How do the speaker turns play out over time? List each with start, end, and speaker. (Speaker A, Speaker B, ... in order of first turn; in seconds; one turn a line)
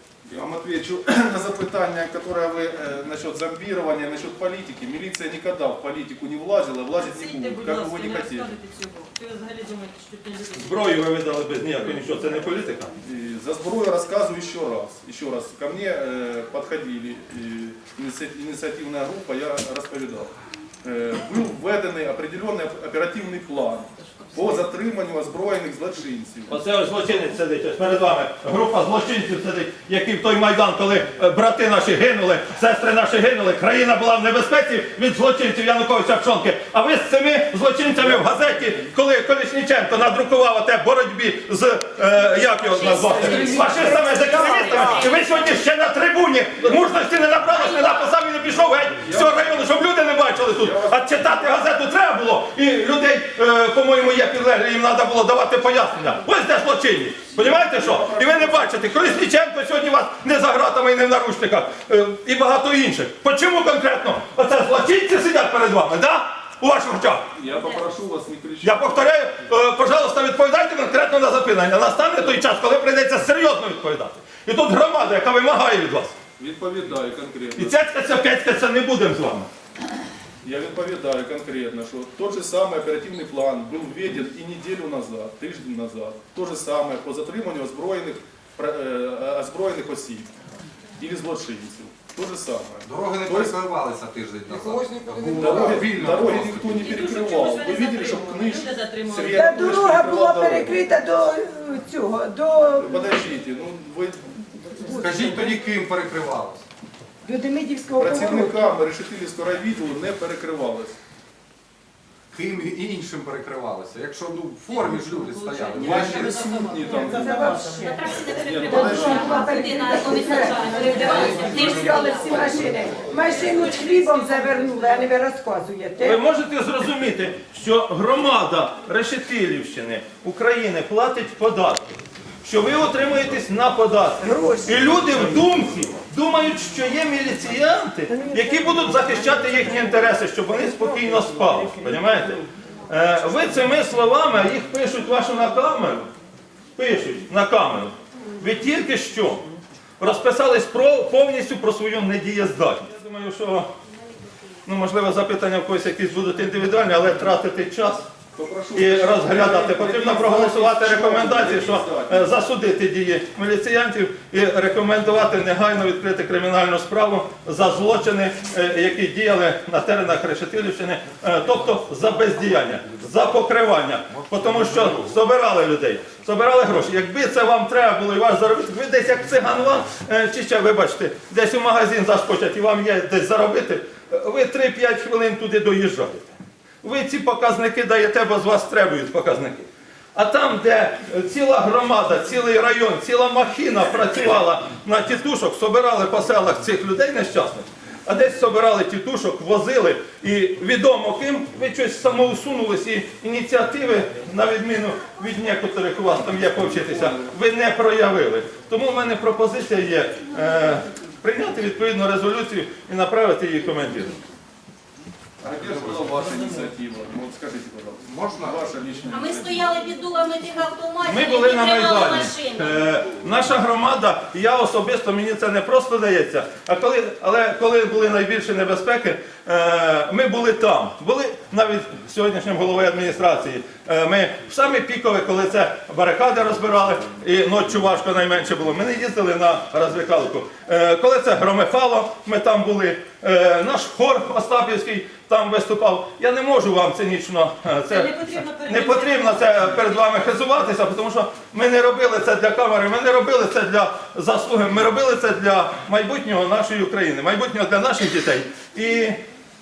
Speaker A: 0.2-8.5
Speaker B: 7.0-11.0
Speaker C: 10.6-12.9
Speaker A: 13.0-26.5
Speaker C: 26.5-67.3
Speaker D: 42.7-45.2
Speaker E: 43.2-44.8
Speaker D: 47.5-48.0
Speaker A: 49.0-49.8
Speaker A: 50.4-51.5
Speaker A: 57.3-59.0
Speaker A: 67.3-69.0
Speaker C: 68.6-76.2
Speaker A: 76.4-77.8
Speaker C: 77.5-79.5
Speaker A: 80.4-90.3
Speaker A: 91.0-93.5
Speaker F: 92.8-96.9
Speaker A: 95.2-100.8
Speaker B: 96.7-99.9
Speaker E: 99.3-103.1
Speaker A: 102.7-104.3
Speaker E: 104.8-105.7
Speaker F: 104.9-106.7
Speaker A: 105.0-105.5
Speaker E: 107.2-108.8
Speaker A: 108.0-111.0
Speaker F: 112.3-116.4
Speaker B: 114.7-119.3
Speaker A: 115.8-117.6
Speaker E: 116.9-118.0
Speaker D: 117.8-122.7
Speaker A: 118.2-119.5
Speaker E: 118.7-126.2
Speaker B: 119.9-125.1
Speaker F: 121.1-121.9
Speaker C: 126.0-131.8
Speaker C: 132.4-146.1
Speaker E: 134.2-135.0
Speaker E: 138.1-139.8
Speaker C: 146.8-149.5
Speaker C: 150.0-153.7
Speaker C: 154.7-158.1
Speaker A: 158.3-162.3
Speaker C: 158.7-214.2
Speaker A: 206.7-207.3
Speaker A: 215.4-219.7
Speaker F: 218.1-218.7
Speaker D: 219.1-222.7
Speaker C: 221.0-259.2
Speaker B: 247.9-250.3